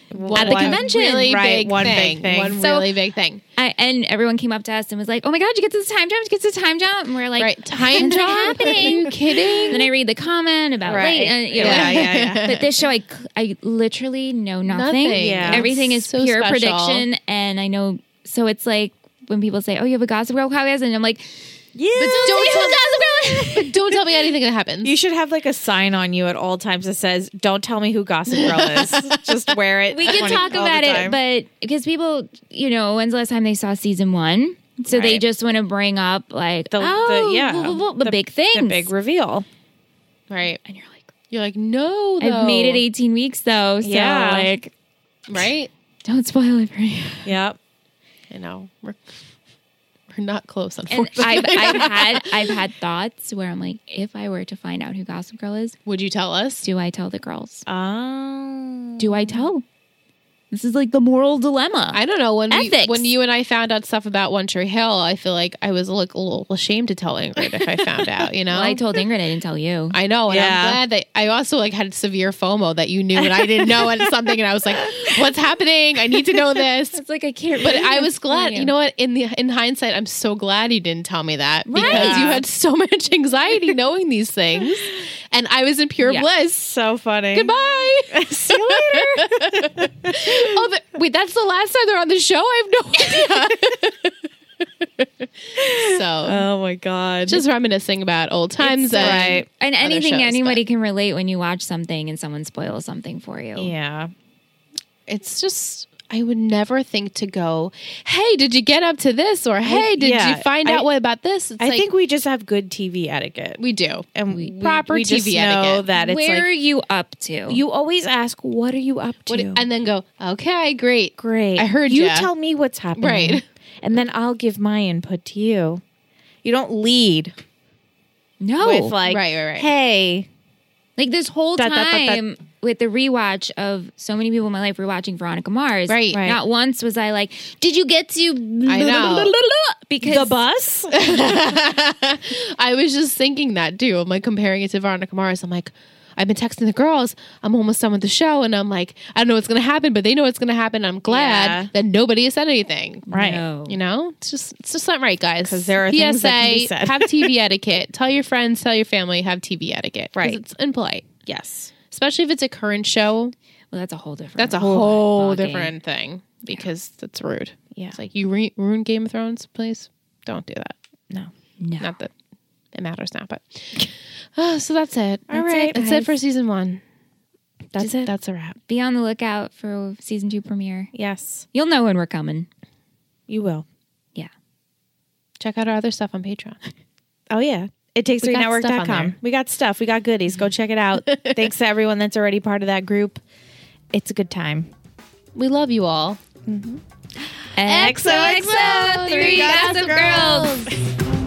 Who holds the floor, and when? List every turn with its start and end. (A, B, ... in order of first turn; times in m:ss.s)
0:00.1-0:02.9 A
0:00.2-0:01.4 B
0:00.3-0:03.4 C
0:03.6-0:09.1 B
0:07.4-0:09.9 C
0:09.7-0:23.7 B
0:10.9-0:12.4 A
0:11.5-0:12.7 C
0:14.6-0:17.0 C
0:15.1-0:15.7 A
0:21.8-0:23.8 A
0:22.0-0:25.0 C
0:24.8-0:31.2 A
0:28.3-0:29.2 C
0:29.9-0:38.9 B
0:30.1-0:30.5 C
0:34.9-0:35.2 A
0:36.7-0:39.5 A
0:40.3-0:40.6 C
0:40.6-0:41.1 B
0:41.3-0:42.8 C
0:42.2-0:44.7 B
0:43.8-0:44.5 A
0:45.3-0:45.7 C
0:46.0-0:47.3 B
0:47.2-0:47.6 A
0:48.3-0:49.2 C
0:50.1-0:52.5 C
0:50.9-0:55.8 B
0:51.2-0:51.9 A
0:55.9-0:56.7 C
0:56.6-0:57.6 B
0:57.7-0:59.5 A
0:59.0-0:59.6 B
1:00.5-1:03.1 B
1:01.9-1:08.8 C
1:07.5-1:08.3 A
1:08.5-1:10.0 B
1:09.9-1:17.0 C
1:10.3-1:10.8 A
1:13.2-1:14.0 A
1:14.8-1:15.2 A
1:16.9-1:18.7 B
1:17.6-1:26.7 C
1:21.7-1:22.4 B
1:21.8-1:22.4 A
1:26.6-1:27.5 A
1:27.3-1:34.1 C
1:28.1-1:30.5 A
1:33.0-1:33.5 A
1:35.0-1:36.5 C
1:35.6-1:37.4 A
1:37.3-1:40.6 C
1:38.7-1:39.5 A
1:38.7-1:43.7 B
1:43.6-1:44.1 A
1:45.1-1:51.9 C
1:49.6-1:50.9 A
1:51.6-1:53.6 A
1:53.6-1:55.8 C
1:54.1-1:56.5 A
1:55.9-1:57.6 B
1:57.5-1:59.6 A
1:59.3-2:02.3 C
2:01.2-2:05.8 A
2:03.0-2:03.4 C
2:06.4-2:07.3 A
2:08.4-2:09.0 B
2:08.6-2:10.3 A
2:09.0-2:09.7 C
2:11.0-2:20.4 B
2:11.6-2:12.2 A
2:15.9-2:16.2 C
2:16.1-2:16.4 A
2:18.7-2:19.3 C
2:20.0-2:21.6 A
2:20.9-2:33.1 C
2:31.1-2:31.7 A
2:33.1-2:33.8 B
2:33.1-2:33.4 A
2:33.7-2:41.1 C
2:35.4-2:37.4 A
2:40.2-2:40.4 A
2:41.2-2:41.7 A
2:41.9-2:43.4 C
2:43.7-2:45.7 B
2:44.4-2:50.8 C
2:51.6-2:52.0 B
2:51.8-2:52.1 C
2:52.7-2:56.8 C
2:55.3-2:55.8 A
2:55.3-2:56.2 B
2:57.8-2:58.6 C
2:57.8-2:58.0 A
2:58.7-3:00.9 B
3:00.9-3:01.5 A
3:01.5-3:02.5 B
3:03.3-3:03.7 A
3:05.4-3:06.6 C
3:07.3-3:13.2 A
3:08.2-3:09.2 C
3:11.0-3:11.5 C
3:13.9-3:14.7 A
3:15.4-3:16.2 C
3:16.5-3:16.8 A
3:17.6-3:20.6 B
3:17.6-3:20.7 C
3:17.8-3:20.3 A